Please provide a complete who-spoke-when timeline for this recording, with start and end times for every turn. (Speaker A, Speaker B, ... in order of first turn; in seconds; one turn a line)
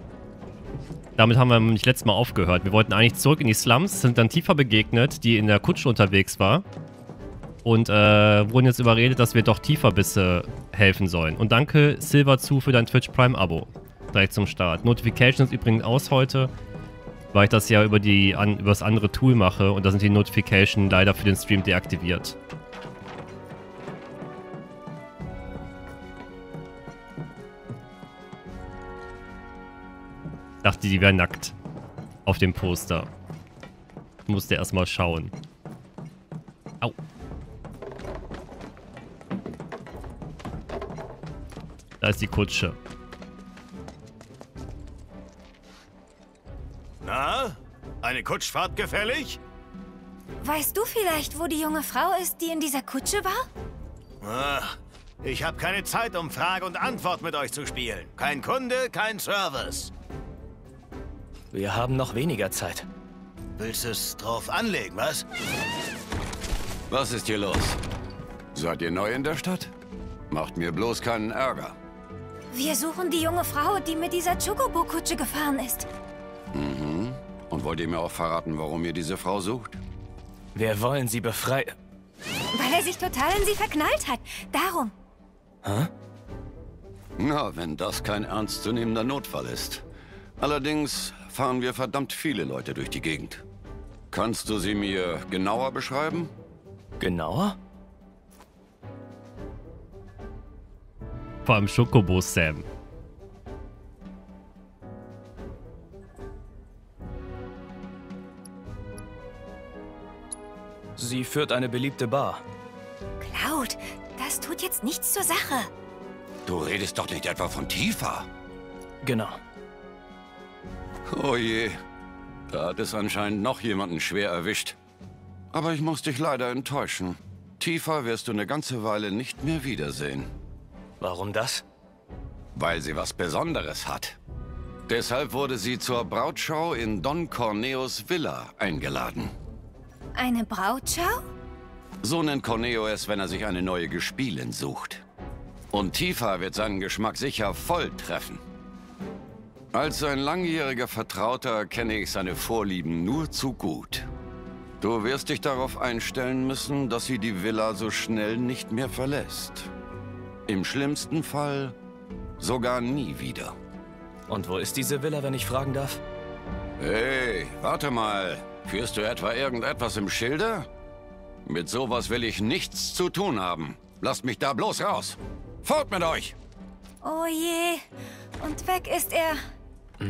Speaker A: 1.2-6.6
Speaker A: 7.6-16.5
Speaker A: 17.3-22.4
Speaker A: 30.6-31.5
Speaker A: 32.2-33.1
Speaker A: 34.2-35.3
Speaker A: 42.0-42.8
Speaker B: 47.0-49.4
Speaker C: 50.4-53.5
Speaker B: 54.2-59.9
Speaker D: 61.5-62.9
Speaker B: 63.6-65.2
Speaker E: 66.9-67.8
Speaker E: 68.5-69.7
Speaker E: 70.3-71.8
Speaker C: 72.5-75.9
Speaker E: 76.5-79.8
Speaker D: 80.5-81.8
Speaker C: 82.5-84.9
Speaker D: 85.6-85.9
Speaker E: 87.2-89.8
Speaker E: 90.4-93.4
Speaker E: 94.1-96.3
Speaker D: 97.0-97.5
Speaker A: 101.4-102.7
Speaker D: 111.0-112.4
Speaker C: 113.2-115.7
Speaker E: 116.5-118.3
Speaker D: 119.0-119.4
Speaker E: 121.1-121.8
Speaker E: 122.5-124.8
Speaker E: 125.5-130.3
Speaker D: 131.0-131.6
Speaker E: 132.5-134.2
Speaker E: 134.9-139.3
Speaker C: 140.2-141.2
Speaker E: 142.0-145.0
Speaker E: 145.7-148.4
Speaker E: 149.7-154.1
Speaker E: 154.8-159.7
Speaker E: 160.5-161.8
Speaker E: 162.4-163.6
Speaker D: 164.3-166.0
Speaker E: 166.8-170.7
Speaker E: 171.4-176.3
Speaker C: 177.0-177.8
Speaker C: 178.4-179.4